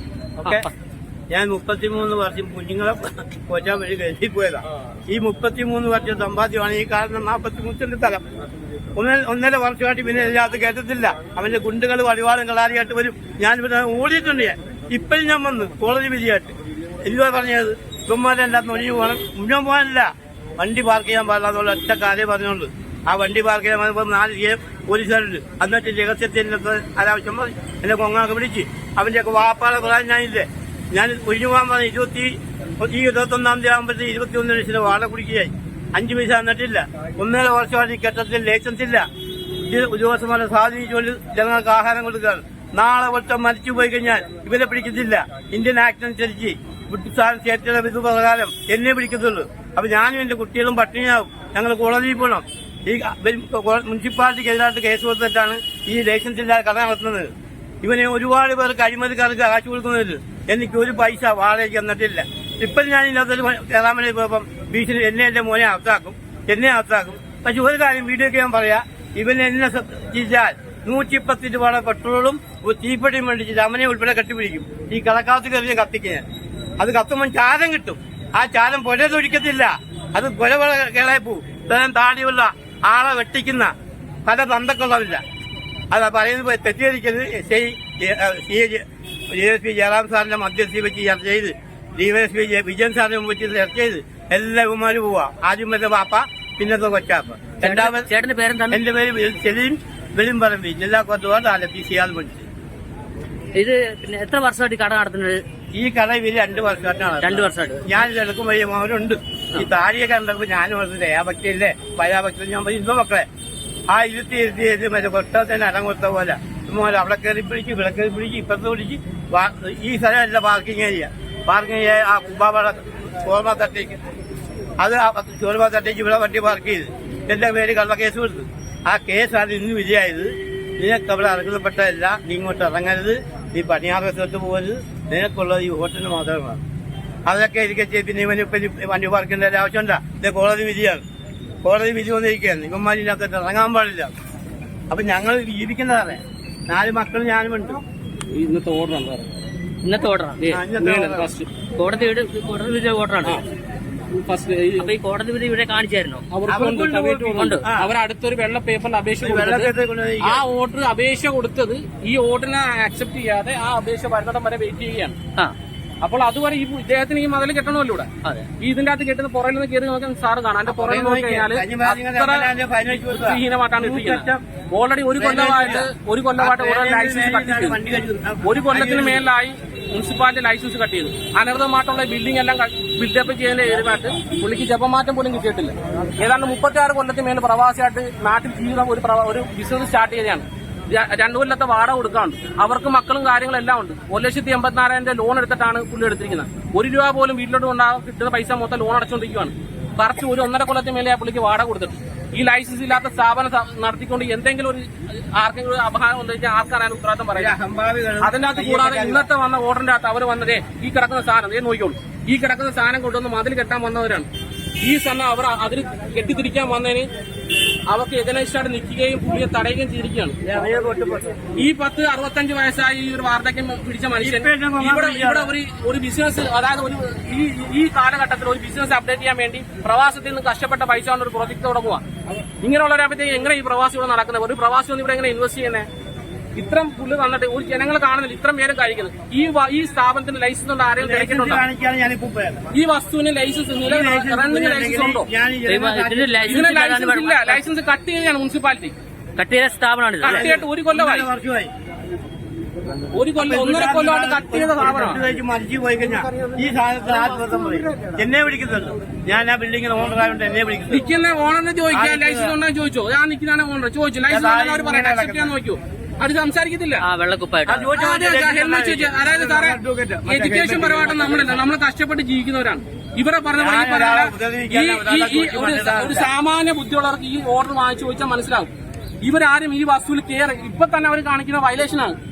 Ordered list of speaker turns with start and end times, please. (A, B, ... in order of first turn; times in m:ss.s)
0:00.4-0:00.7 A
0:01.3-0:08.2 A
0:09.0-0:39.0 A
0:39.6-0:57.3 A
0:57.8-1:16.2 A
1:16.8-1:23.7 A
1:24.2-1:25.2 A
1:25.9-1:38.1 A
1:37.6-1:38.8 B
1:38.7-1:42.4 A
1:43.5-1:45.4 B
1:45.7-1:53.2 A
1:47.2-1:47.8 B
1:53.9-2:04.0 A
2:04.8-2:16.6 A
2:17.2-2:21.0 A
2:21.6-2:24.1 A
2:24.9-2:27.8 A
2:28.3-2:29.4 C
2:29.8-2:30.6 B
2:30.5-2:31.3 A
2:30.7-2:31.5 C
2:31.8-2:33.4 B
2:34.1-2:34.9 C
2:34.8-2:36.2 B
2:36.3-2:45.2 C
2:36.5-2:37.9 A
2:37.4-2:37.6 B
2:39.2-2:40.4 A
2:46.0-2:48.1 C
2:48.6-2:57.8 C
2:50.7-2:54.4 A
2:55.2-2:59.2 A
2:58.4-3:27.5 C
3:27.3-3:29.2 A
3:28.2-3:34.3 C
3:34.8-3:37.1 C
3:37.9-3:40.4 C
3:40.4-3:41.5 A
3:41.6-3:52.0 C
3:44.2-3:45.5 A
3:52.6-3:55.9 C
3:56.6-4:01.6 C
4:01.0-4:02.6 A
4:02.7-4:05.3 C
4:03.8-4:06.7 A
4:05.7-4:07.6 B
4:06.5-4:08.9 C
4:09.4-4:10.5 B
4:10.2-4:11.3 C
4:10.2-4:11.7 A
4:13.1-4:15.2 C
4:13.4-4:21.0 A
4:20.9-4:27.0 C
4:21.9-4:22.6 A
4:24.3-4:25.5 A
4:27.0-4:27.9 B
4:27.6-4:31.6 A
4:27.9-4:38.7 C
4:33.6-4:36.3 A
4:39.2-4:42.2 C